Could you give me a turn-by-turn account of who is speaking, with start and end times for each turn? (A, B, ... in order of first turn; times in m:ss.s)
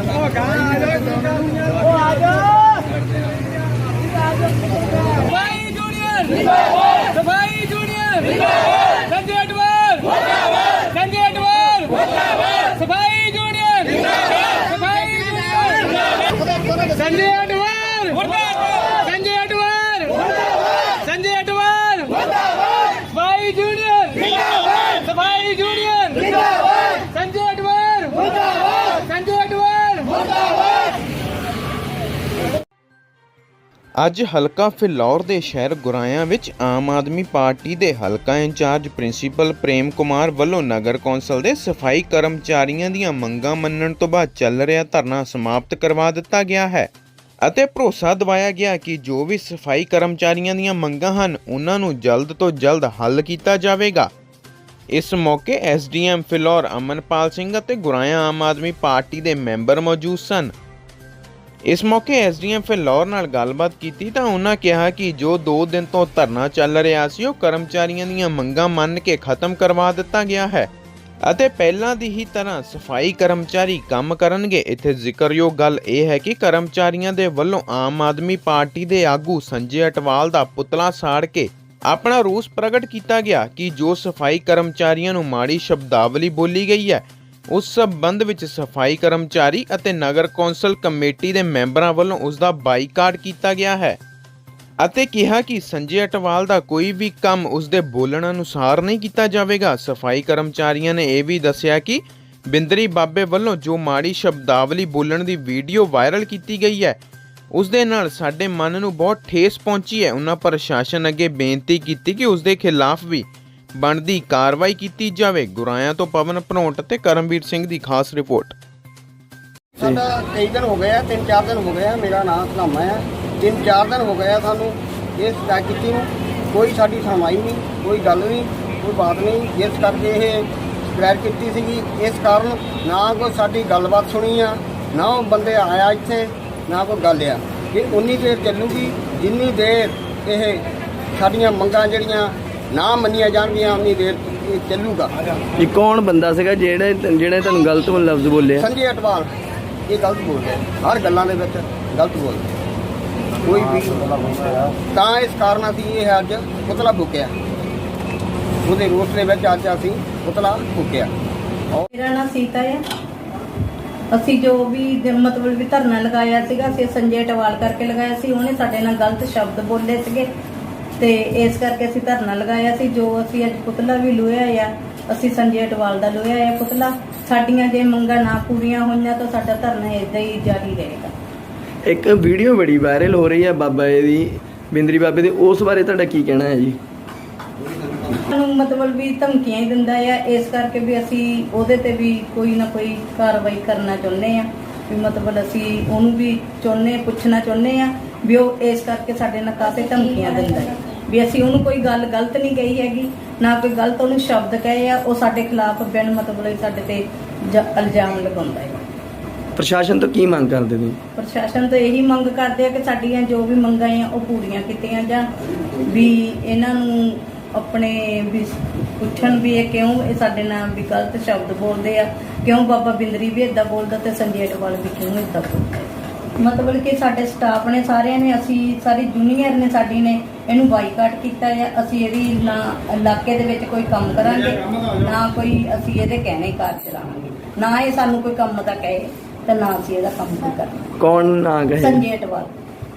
0:05.2-0:08.4 A
0:09.0-0:10.2 A
0:10.8-0:11.9 A
0:12.6-0:15.9 A
0:17.0-0:20.3 A
0:20.9-0:22.3 A
0:23.0-0:26.4 A
0:27.1-0:28.4 A
0:29.1-0:30.2 A
0:34.0-0:46.9 B
0:47.4-0:54.1 B
0:54.9-1:00.5 B
1:01.7-1:10.7 B
1:11.3-1:34.0 B
1:34.8-1:47.0 B
1:47.5-1:58.6 B
1:59.8-2:25.1 C
2:25.6-2:28.7 D
2:28.6-2:29.3 C
2:29.9-2:32.5 C
2:33.4-2:37.3 C
2:38.6-2:41.1 C
2:41.9-2:42.8 E
2:44.1-2:50.3 E
2:51.0-3:01.1 E
3:01.8-3:06.8 D
3:08.3-3:28.8 E
3:29.6-3:31.0 D
3:31.2-3:35.3 E
3:35.8-4:00.8 E
4:01.0-4:02.0 D
4:01.8-4:02.5 E